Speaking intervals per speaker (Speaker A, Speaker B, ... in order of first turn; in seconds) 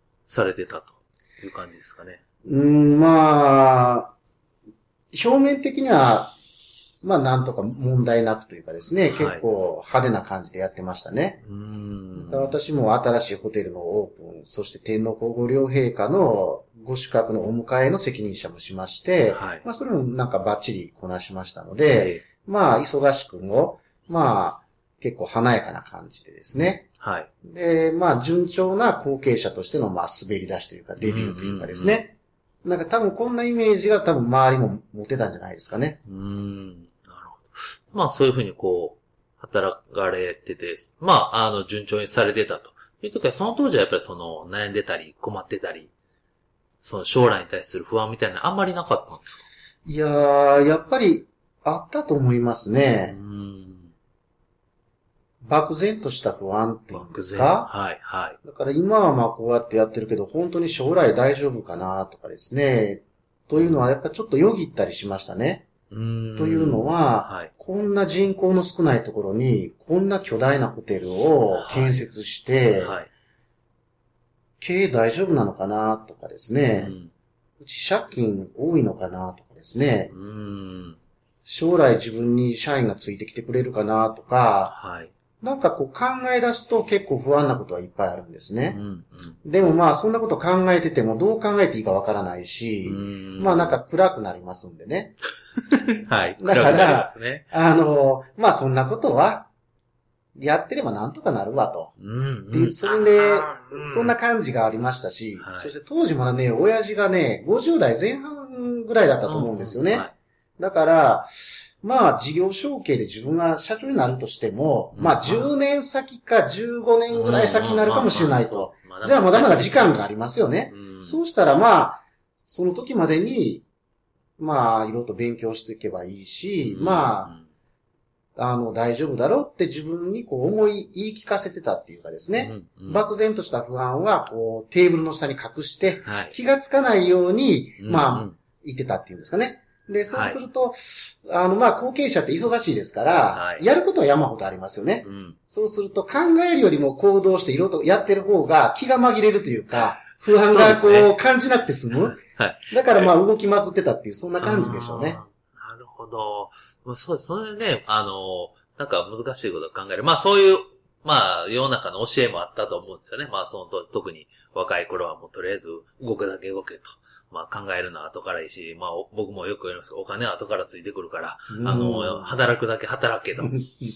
Speaker A: 0.3-2.2, 9.1-9.4, 11.4-12.6, 19.3-19.6, 21.9-22.2, 27.0-27.3, 31.0-32.0, 36.0-45.9, 46.8-49.5, 53.1-53.9, 56.9-58.4, 65.9-67.5, 71.5-72.1, 72.8-73.1, 76.7-77.1, 80.1-81.0, 84.7-85.1, 88.7-89.4, 92.8-93.8, 95.7-97.5, 102.0-104.1, 105.4-105.7, 109.3-110.1, 114.9-115.5, 117.1-120.1, 120.7-121.2, 126.7-127.5, 132.3-133.1, 136.0-136.3, 137.8-138.4, 140.1-140.4, 143.3-143.7, 145.0-145.4, 150.5-151.2, 152.0-153.1, 154.4-173.6
Speaker B: 2.5-4.1, 5.1-6.4, 7.0-11.4, 12.2-26.9, 27.4-36.0, 49.9-53.2, 55.4-57.7, 58.4-65.7, 66.4-73.0, 74.6-77.0, 77.6-80.1, 81.5-84.8, 85.4-88.8, 89.4-95.2, 96.4-99.5, 100.4-102.0, 102.5-123.7, 124.4-127.3, 128.4-152.2, 152.7-155.2, 171.5-172.4, 173.4-173.7